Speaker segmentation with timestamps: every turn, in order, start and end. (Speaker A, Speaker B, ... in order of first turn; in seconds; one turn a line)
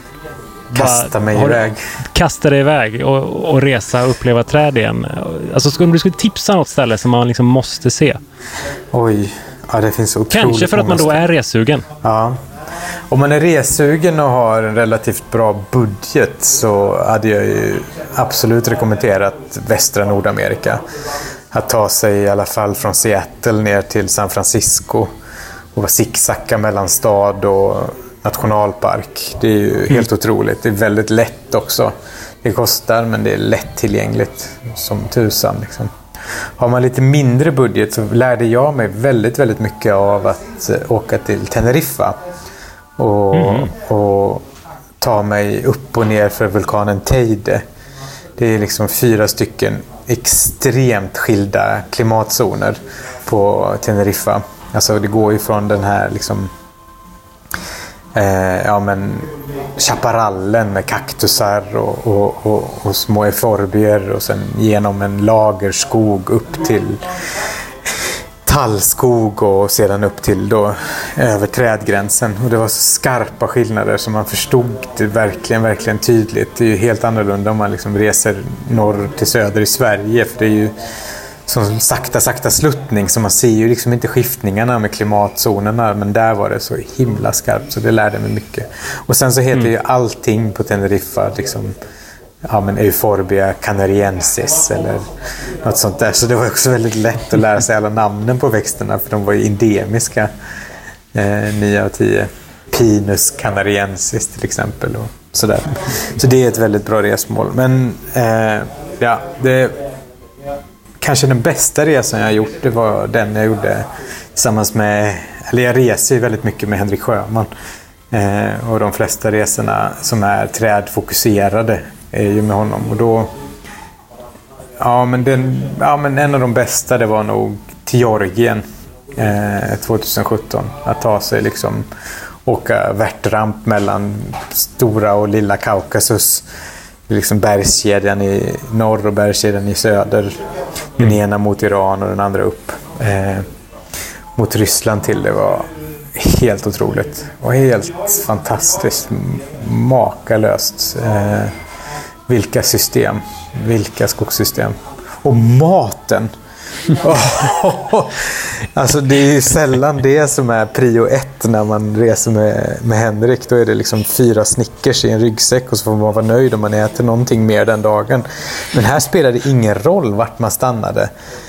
Speaker A: 0.7-1.6
Speaker B: 0.7-1.8
Speaker A: 2.1-8.2
Speaker B: 8.9-11.2
Speaker A: 10.3-11.9
Speaker B: 12.0-12.4
Speaker B: 13.1-20.8
Speaker B: 21.5-25.1
Speaker B: 25.7-42.2
Speaker B: 43.0-44.5
Speaker A: 43.3-43.7
Speaker B: 45.0-47.6
Speaker B: 48.4-56.5
Speaker B: 58.1-67.0
Speaker B: 67.9-80.7
Speaker B: 81.5-91.7
Speaker B: 92.5-95.1
Speaker B: 95.6-100.3
Speaker B: 101.1-109.8
Speaker B: 111.0-117.5
Speaker B: 118.1-123.3
Speaker B: 124.8-128.6
Speaker B: 129.2-131.9
Speaker B: 132.4-136.4
Speaker B: 137.1-140.4
Speaker B: 141.0-143.4
Speaker B: 144.3-151.5
Speaker B: 152.3-156.3
Speaker B: 156.9-171.1